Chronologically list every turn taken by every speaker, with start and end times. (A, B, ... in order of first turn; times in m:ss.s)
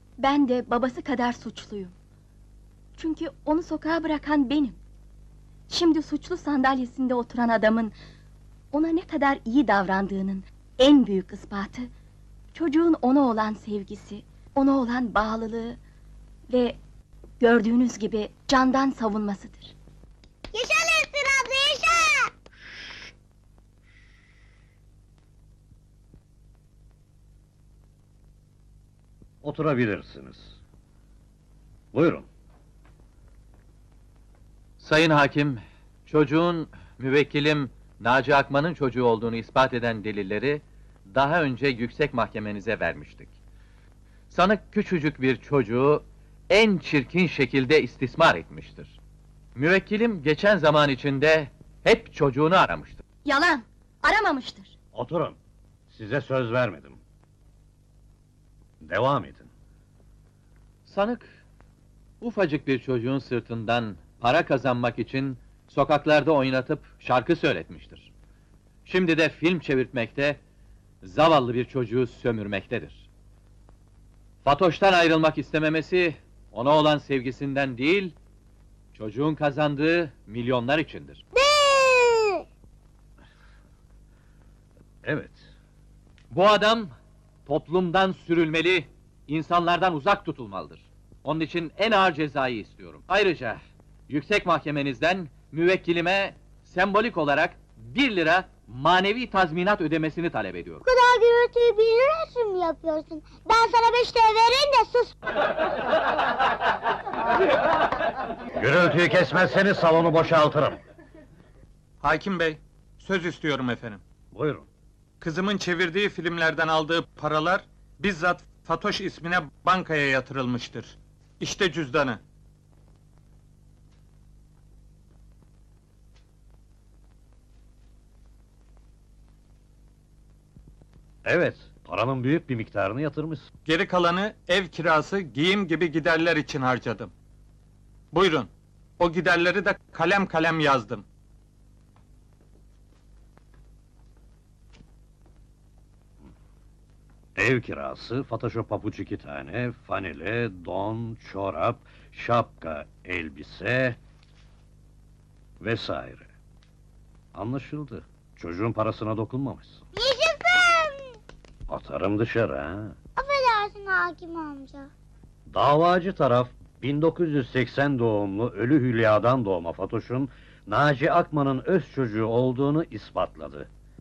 0:00.2-0:01.9 A
0:03.0-0:04.8 A
0:05.7-0:07.9 A
0:08.7-0:11.9 A
0:12.5-0:15.8 A
0:16.5-0:16.8 A
0:17.4-0:19.7 A
0:20.5-0:22.3 B
0:22.6-0:23.1 C
0:29.4-0:30.6 C
0:31.9-0:32.3 C
0:34.8-0:43.3 D
0:44.3-0:49.0 D
0:49.6-0:53.0 D
0:53.2-0:54.7 A
0:54.9-0:55.4 C
0:55.9-0:57.0 C
0:58.8-0:59.5 C
1:00.9-1:01.3 D
1:02.2-1:08.1 D
1:08.8-1:10.4 D
1:11.0-1:13.1 D
1:14.4-1:18.1 D
1:18.9-1:21.2 D
1:21.3-1:22.4 B
1:25.0-1:25.4 C
1:26.3-1:26.9 D
1:27.4-1:40.8 D
1:40.8-1:45.1 B
1:48.6-1:50.8 C
1:52.0-1:54.0 E
1:54.3-1:54.7 C
1:55.2-2:02.2 E
2:11.2-2:13.5 C
2:13.6-2:17.1 E
2:18.1-2:21.0 E
2:27.4-2:34.0 C
2:35.6-2:36.3 C
2:37.3-2:39.8 C
2:39.9-2:41.2 B
2:41.7-2:42.9 C
2:43.2-2:44.9 B
2:45.5-2:53.7 C